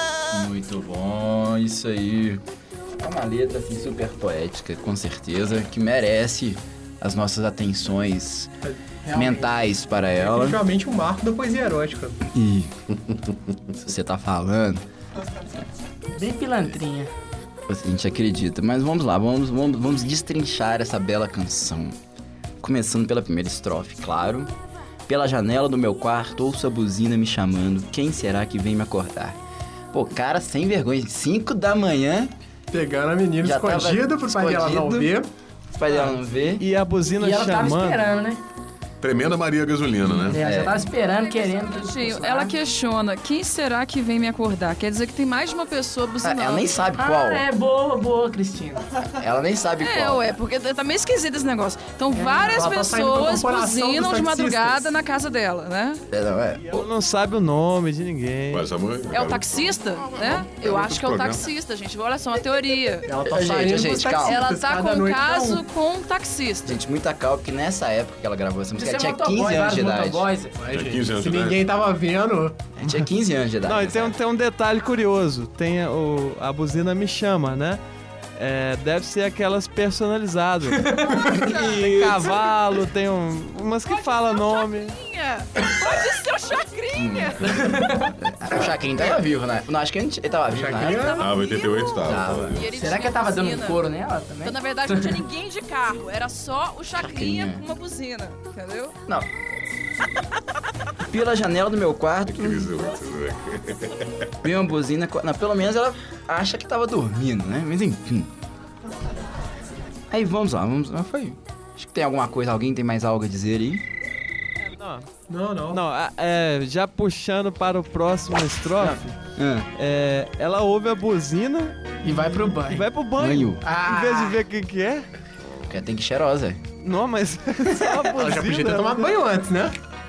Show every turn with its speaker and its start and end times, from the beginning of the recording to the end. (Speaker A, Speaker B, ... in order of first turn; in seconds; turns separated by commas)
Speaker A: 0.3-2.4, Speaker A: 3.0-8.5, Speaker B: 8.6-9.5, Speaker A: 9.1-10.6, Speaker B: 10.1-12.2, Speaker A: 12.3-12.7, Speaker A: 13.8-14.8, Speaker C: 16.1-17.1, Speaker A: 17.7-22.0, Speaker A: 22.6-24.5, Speaker A: 25.1-29.4, Speaker A: 29.9-32.3, Speaker B: 32.7-35.3, Speaker A: 33.4-35.1, Speaker A: 35.7-36.6, Speaker D: 35.9-38.1, Speaker C: 37.2-38.4, Speaker E: 39.0-40.4, Speaker C: 40.3-42.5, Speaker A: 40.4-40.9, Speaker F: 41.1-46.7, Speaker A: 46.2-47.4, Speaker C: 47.0-48.9, Speaker A: 49.0-50.2, Speaker F: 49.8-56.0, Speaker B: 52.2-54.9, Speaker A: 56.1-56.9, Speaker D: 56.7-58.7, Speaker E: 58.5-61.5, Speaker F: 59.1-63.1, Speaker B: 63.0-65.6, Speaker A: 63.2-64.4, Speaker F: 64.2-66.7, Speaker A: 66.6-70.3, Speaker C: 68.8-70.5, Speaker B: 70.5-72.6, Speaker E: 70.7-71.6, Speaker A: 72.8-74.2, Speaker D: 73.6-77.8, Speaker D: 78.4-85.0, Speaker A: 81.6-82.1, Speaker F: 83.9-87.5, Speaker A: 86.9-87.4, Speaker C: 87.4-88.1, Speaker A: 88.2-91.2, Speaker B: 90.5-91.3, Speaker F: 90.8-93.8, Speaker E: 91.2-92.7, Speaker A: 92.0-92.6, Speaker C: 92.7-95.2, Speaker F: 94.4-98.9, Speaker A: 97.0-97.6, Speaker A: 101.1-102.7, Speaker E: 102.2-104.3, Speaker A: 104.4-108.3, Speaker A: 110.1-113.8, Speaker D: 114.7-115.1, Speaker B: 115.3-115.8, Speaker D: 115.7-119.2, Speaker A: 118.8-119.7, Speaker D: 119.7-121.8, Speaker C: 122.0-122.8, Speaker D: 122.7-125.1, Speaker A: 123.2-123.6, Speaker C: 123.6-124.4, Speaker A: 125.7-126.6, Speaker D: 126.8-129.1, Speaker B: 128.1-129.7